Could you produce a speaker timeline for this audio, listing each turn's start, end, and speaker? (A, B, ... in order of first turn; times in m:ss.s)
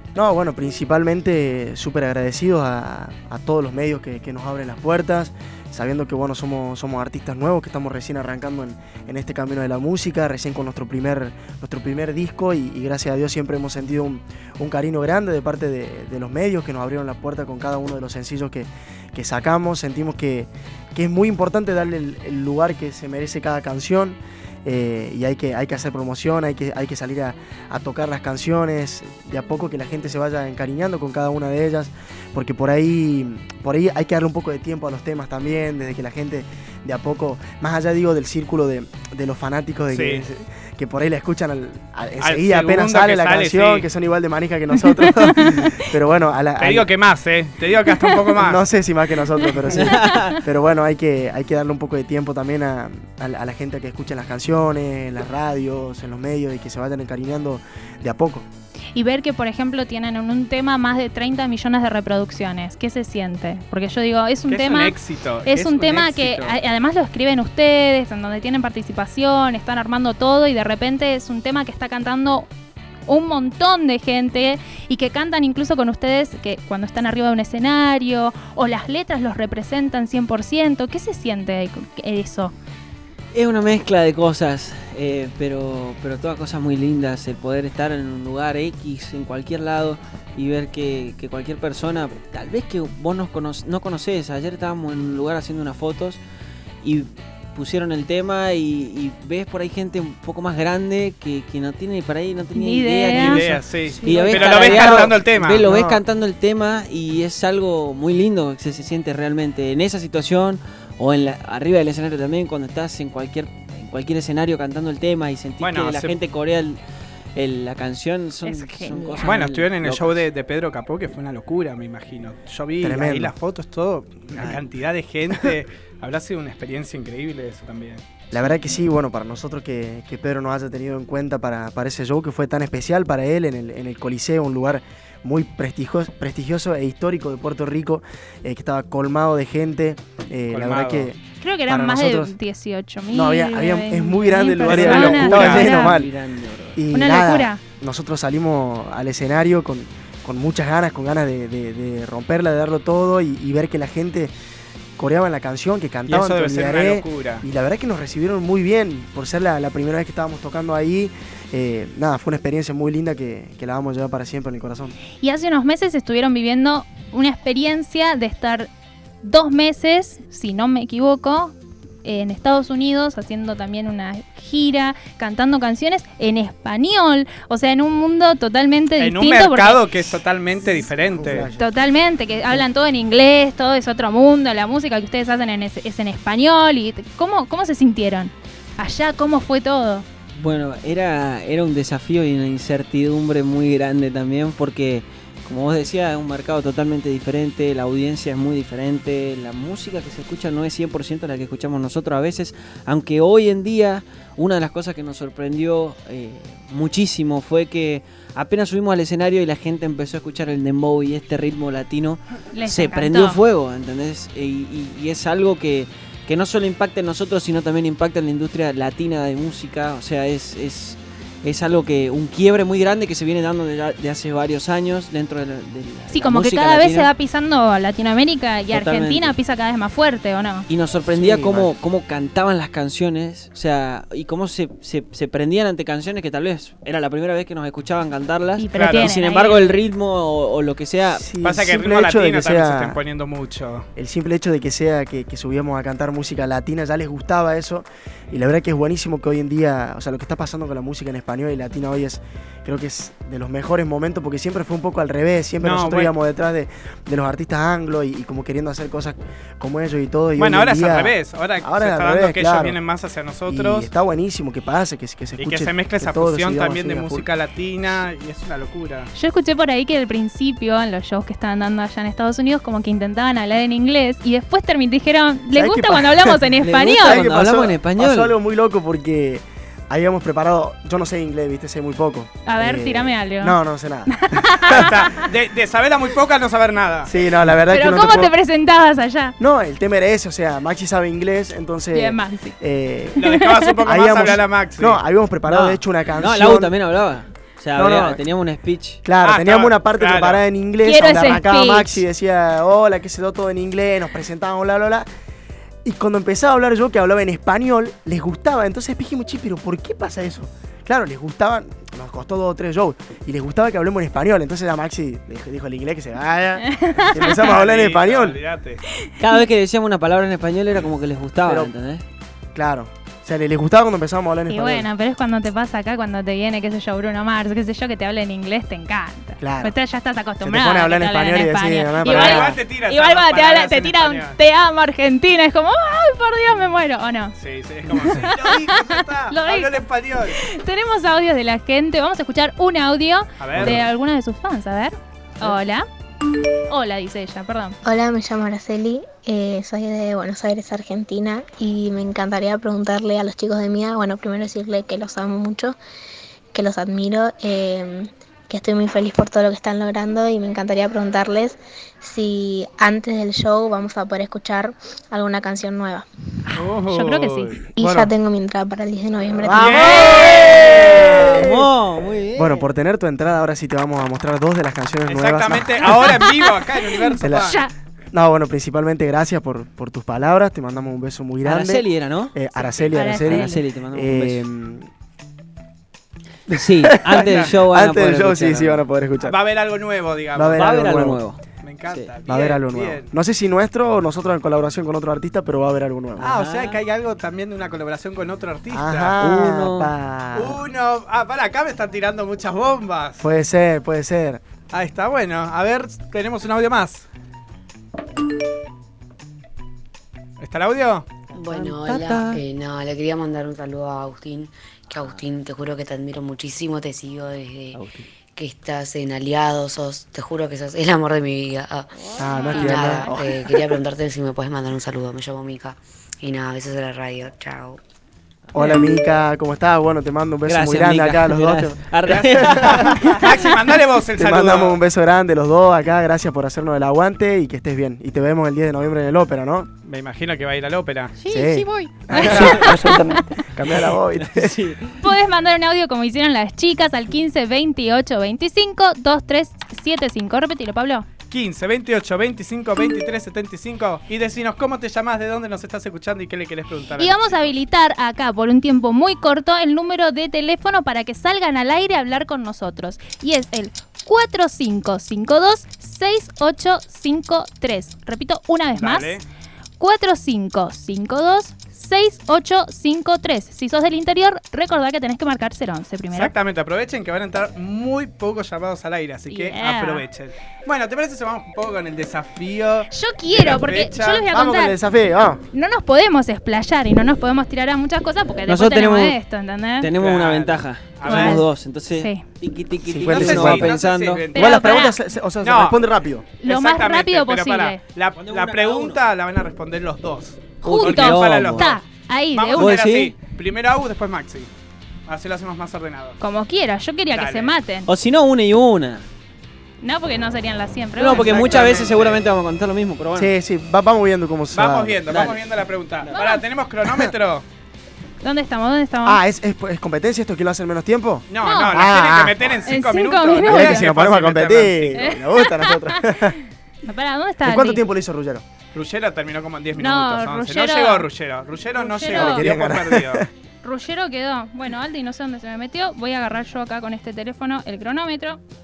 0:00.1-0:46.9 A
0:39.9-0:40.2 B
0:42.2-0:43.8 B
0:44.9-0:45.7 C
0:46.6-0:48.6 B
0:48.3-0:58.4 A
0:49.7-0:50.4 D
0:49.8-0:50.4 C
0:58.9-1:12.5 C
1:04.5-1:06.6 B
1:13.1-1:22.5 C
1:23.3-1:36.2 D
1:36.8-1:56.8 D
1:42.5-1:43.4 C
1:43.1-1:45.7 B
1:43.9-1:46.0 A
1:55.6-1:56.1 B
1:57.4-2:00.2 D
1:58.4-1:59.4 C
1:59.2-2:08.0 B
2:02.8-2:03.3 A
2:08.3-2:22.3 A
2:20.5-2:21.1 B
2:21.4-2:25.9 C
2:23.1-2:26.1 A
2:24.6-2:25.6 B
2:24.8-2:26.8 D
2:26.7-2:34.3 A
2:26.9-2:27.6 C
2:35.0-2:44.9 A
2:36.1-2:37.4 B
2:45.2-2:48.7 C
2:49.2-3:00.2 C
2:59.0-3:01.5 B
3:00.6-3:01.7 A
3:01.6-3:10.0 C
3:10.4-3:47.1 D
3:32.5-3:33.4 C
3:46.1-3:50.6 C
3:48.7-3:49.3 D
3:50.7-4:01.2 D
3:51.1-3:51.7 A
3:58.6-3:59.7 C
3:58.7-3:59.1 B
4:01.2-4:03.0 A
4:01.4-4:03.9 B
4:04.0-4:22.8 A
4:15.6-4:16.1 B
4:20.4-4:23.9 B
4:23.5-4:27.3 A
4:25.4-4:29.1 B
4:29.1-4:37.2 C
4:35.5-4:44.9 A
4:36.6-4:38.3 D
4:42.4-4:45.3 C
4:44.7-4:47.1 B
4:47.0-4:48.3 A
4:47.7-4:49.4 C
4:49.4-4:53.2 A
4:51.9-4:52.6 C
4:53.2-4:55.0 B
4:53.2-4:53.8 C
4:53.8-4:56.7 A
4:55.5-4:59.0 D
4:57.8-4:58.2 A
4:59.0-5:05.1 A
4:59.2-5:00.4 B
5:00.8-5:02.0 C
5:05.8-5:18.4 A
5:16.6-5:17.5 C
5:17.2-5:18.8 B
5:19.0-5:19.4 C
5:19.2-5:22.0 D
5:21.4-5:21.7 A
5:22.5-5:24.9 A
5:24.5-5:37.4 C
5:29.4-5:29.7 A
5:30.4-5:32.6 A
5:32.0-5:34.4 B
5:37.4-5:40.4 B
5:37.9-5:39.7 C
5:40.3-5:45.8 C
5:43.4-5:43.8 B
5:46.7-5:47.8 C
5:47.8-5:55.8 E
5:56.5-6:06.0 E
6:06.5-6:07.6 B
6:06.9-6:07.6 C
6:07.8-6:10.1 E
6:07.8-6:08.1 A
6:09.4-6:11.7 A
6:09.5-6:11.3 B
6:10.4-6:12.7 D
6:12.4-6:16.2 A
6:15.1-6:17.6 B
6:15.9-6:17.7 C
6:17.2-6:17.6 A
6:18.1-6:24.9 A
6:21.4-6:22.4 D
6:22.9-6:23.6 C
6:23.0-6:24.4 D
6:26.5-6:28.8 D
6:26.5-6:29.4 A
6:27.1-6:27.5 B
6:29.2-6:30.6 B
6:30.3-6:31.2 A
6:30.5-6:31.4 D
6:31.6-6:33.1 B
6:32.2-6:36.3 A
6:36.2-6:36.8 D
6:36.2-6:39.2 B
6:38.7-6:40.6 A
6:39.2-6:39.9 D
6:40.3-6:43.2 B
6:43.2-6:44.4 A
6:44.7-6:47.0 B
6:50.4-6:51.1 B
6:51.3-6:57.8 F
6:51.4-6:52.4 D
6:57.7-6:58.1 D
6:58.3-7:02.0 F
7:02.0-7:03.1 D
7:02.2-7:03.4 A
7:02.3-7:02.6 C
7:02.5-7:07.8 F
7:08.5-7:08.8 D
7:08.5-7:13.1 A
7:10.4-7:13.2 D
7:12.1-7:14.8 B
7:14.2-7:19.7 A
7:19.8-7:21.1 B
7:21.2-7:23.1 D
7:21.2-7:24.6 A
7:22.1-7:23.2 C
7:23.8-7:25.0 D
7:25.0-7:31.1 C
7:31.3-7:37.5 B
7:37.0-7:49.2 C
7:48.8-7:49.2 B
7:49.8-7:56.3 C
7:56.1-8:04.3 B
7:59.3-8:00.1 C
8:02.9-8:04.8 C
8:04.3-8:05.4 A
8:05.5-8:09.9 C
8:08.4-8:09.2 D
8:09.8-8:14.2 D
8:10.0-8:11.4 B
8:11.0-8:12.2 C
8:12.9-8:13.7 A
8:13.0-8:14.7 B
8:14.3-8:15.0 C
8:14.3-8:16.3 A
8:15.4-8:15.8 B
8:16.4-8:17.8 C
8:16.4-8:21.8 B
8:18.2-8:19.0 D
8:20.6-8:21.7 D
8:20.6-8:22.8 C
8:22.3-8:24.5 B
8:22.6-8:23.2 D
8:25.1-8:26.2 B
8:26.2-8:27.9 C
8:27.1-8:27.5 B
8:27.8-8:29.0 D
8:29.8-8:31.4 C
8:31.0-8:33.3 D
8:31.1-8:32.2 B
8:33.2-8:35.2 A
8:34.5-8:37.4 B
8:35.1-8:35.4 D
8:36.1-8:36.4 C
8:38.2-8:39.2 C
8:39.0-8:42.5 A
8:41.3-8:45.1 B
8:41.4-8:41.9 C
8:42.6-8:43.8 C
8:43.4-8:46.4 A
8:44.9-8:47.8 C
8:47.4-8:48.4 A
8:48.7-8:53.2 B
8:49.8-8:51.1 C
8:51.8-8:52.5 C
8:52.1-8:53.2 A
8:53.6-8:58.4 C